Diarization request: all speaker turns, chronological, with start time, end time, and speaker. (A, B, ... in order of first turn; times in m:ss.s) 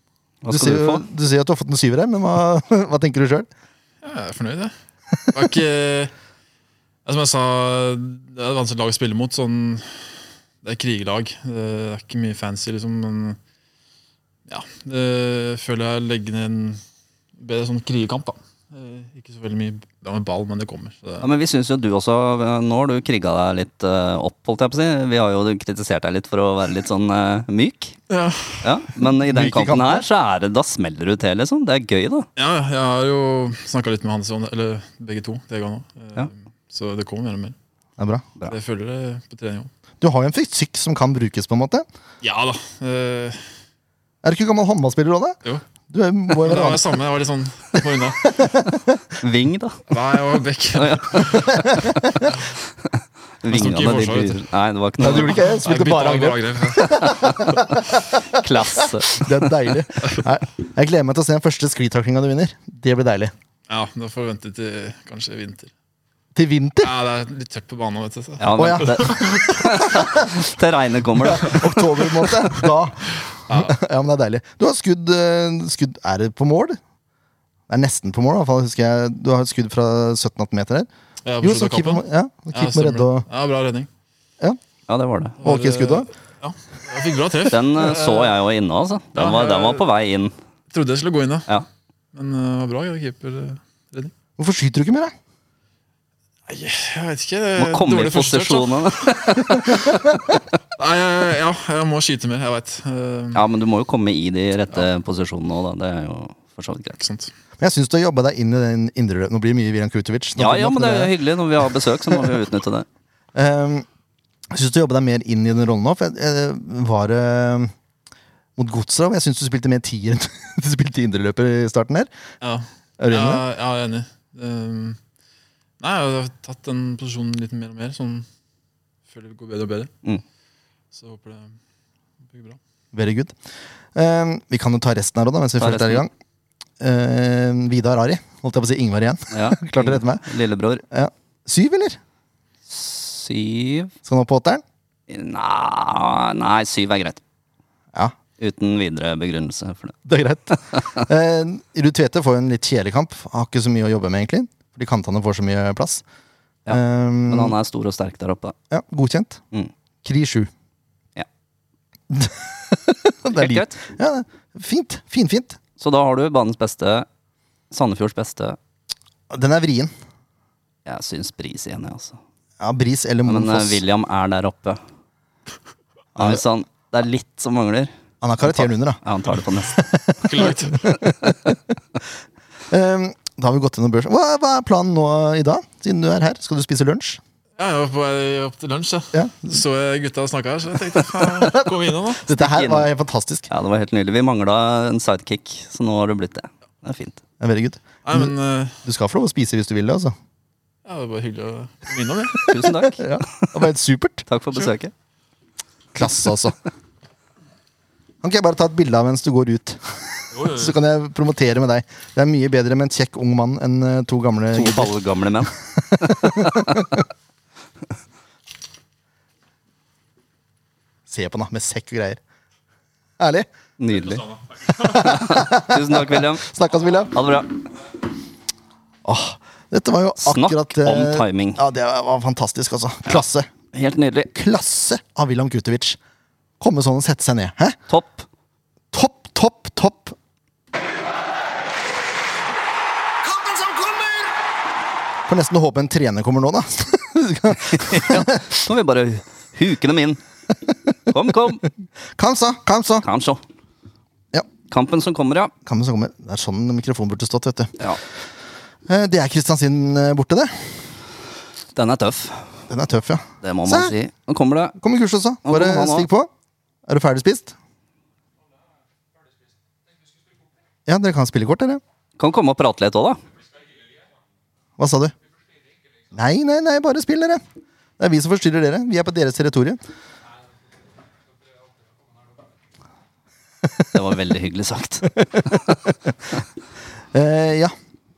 0:00.4-0:01.0 A
0:00.5-0:03.5 B
0:04.0-0:04.7 C
0:05.3-0:06.1 C
0:07.0-0:10.0 C
0:10.6-0:13.4 C
0:14.5-0:16.8 C
0:17.4-0:21.3 C
0:21.2-0:28.0 A
0:28.1-0:28.8 C
0:28.6-0:32.3 A
0:29.2-0:30.0 B
0:32.4-0:37.5 C
0:38.0-0:38.2 B
0:38.5-0:39.7 C
0:40.0-0:41.8 B
0:42.2-0:43.4 C
0:44.2-0:45.4 B
0:45.9-0:46.9 B
0:46.3-0:48.4 C
0:48.2-0:49.0 B
0:49.2-0:49.8 A
0:49.9-0:51.6 C
0:50.7-0:51.8 A
0:51.4-0:52.3 B
0:52.8-0:55.4 A
0:53.5-0:54.4 C
0:55.0-0:57.5 C
0:55.0-1:03.3 B
0:56.8-0:59.7 A
1:03.7-1:05.7 C
1:06.3-1:06.9 B
1:06.8-1:09.7 C
1:08.4-1:11.7 A
1:08.5-1:10.3 B
1:11.2-1:16.8 B
1:13.5-1:13.7 C
1:17.7-1:20.9 B
1:21.2-1:23.9 C
1:21.4-1:23.2 B
1:24.9-1:25.4 A
1:25.4-1:28.4 C
1:25.4-1:26.1 B
1:27.5-1:30.3 A
1:29.2-1:29.8 C
1:30.7-1:31.5 C
1:32.1-1:34.1 C
1:34.4-1:35.1 B
1:36.5-1:39.1 C
1:37.6-1:40.0 A
1:39.7-1:40.3 B
1:40.8-1:43.4 C
1:43.3-1:47.0 A
1:47.0-1:47.3 C
1:47.6-1:51.1 B
1:50.4-1:52.9 A
1:53.3-1:53.8 B
1:54.5-1:57.7 B
1:58.6-2:02.1 B
2:02.4-2:05.0 C
2:03.0-2:03.4 B
2:05.8-2:08.2 C
2:09.1-2:09.9 C
2:10.9-2:11.5 C
2:12.2-2:12.6 C
2:12.9-2:13.3 B
2:13.9-2:16.1 B
2:15.6-2:16.0 A
2:16.8-2:20.3 B
2:19.3-2:20.8 A
2:20.9-2:22.0 B
2:22.7-2:23.9 A
2:24.0-2:24.6 B
2:25.1-2:27.2 A
2:28.4-2:30.0 A
2:30.0-2:36.0 B
2:36.6-2:38.6 A
2:36.7-2:37.6 B
2:38.7-2:39.4 B
2:40.0-2:40.5 B
2:42.1-2:45.6 B
2:43.3-2:43.8 A
2:45.8-2:47.0 A
2:47.7-2:48.6 A
2:49.3-2:49.9 B
2:50.8-2:52.2 A
2:52.6-2:53.8 B
2:53.2-2:54.8 A
2:56.2-2:56.4 B
2:56.2-2:57.9 A
2:58.2-2:59.0 B
2:58.4-2:59.8 A
2:59.7-3:01.7 B
3:00.2-3:01.0 C
3:02.7-3:07.2 B
3:07.6-3:12.2 C
3:09.1-3:09.5 B
3:11.4-3:13.5 B
3:12.3-3:12.9 A
3:13.5-3:17.2 A
3:17.4-3:18.3 B
3:18.0-3:18.8 C
3:18.8-3:20.1 B
3:20.8-3:22.5 C
3:22.4-3:24.2 B
3:22.4-3:23.6 A
3:24.3-3:24.9 A
3:25.9-3:26.6 B
3:28.2-3:34.9 B
3:30.3-3:30.7 C
3:34.5-3:37.0 A
3:35.8-3:37.0 B
3:41.1-3:42.2 B
3:43.2-3:43.5 B
3:43.8-3:44.3 A
3:44.6-3:47.1 B
3:44.9-3:46.5 A
3:47.1-3:47.6 A
3:49.0-3:53.5 B
3:50.2-3:51.6 A
3:53.7-3:54.3 A
3:54.3-3:56.0 B
3:56.6-3:57.8 B
3:57.9-3:58.2 A
3:58.9-4:00.2 B
4:03.2-4:04.3 B
4:05.3-4:08.6 B
4:07.7-4:10.2 A
4:11.1-4:11.6 A
4:12.2-4:13.0 B
4:13.0-4:13.4 A
4:14.7-4:15.5 A
4:15.6-4:17.7 B
4:18.9-4:20.8 B
4:21.7-4:22.5 A
4:22.7-4:23.9 B
4:23.4-4:24.8 A
4:24.8-4:26.3 B
4:25.4-4:26.1 A
4:26.9-4:27.5 B
4:30.8-4:31.8 B
4:32.2-4:33.2 A
4:34.8-4:35.1 B
4:36.1-4:37.4 B
4:38.0-4:39.8 B
4:43.9-4:45.7 A
4:45.2-4:45.9 B
4:47.1-4:47.7 B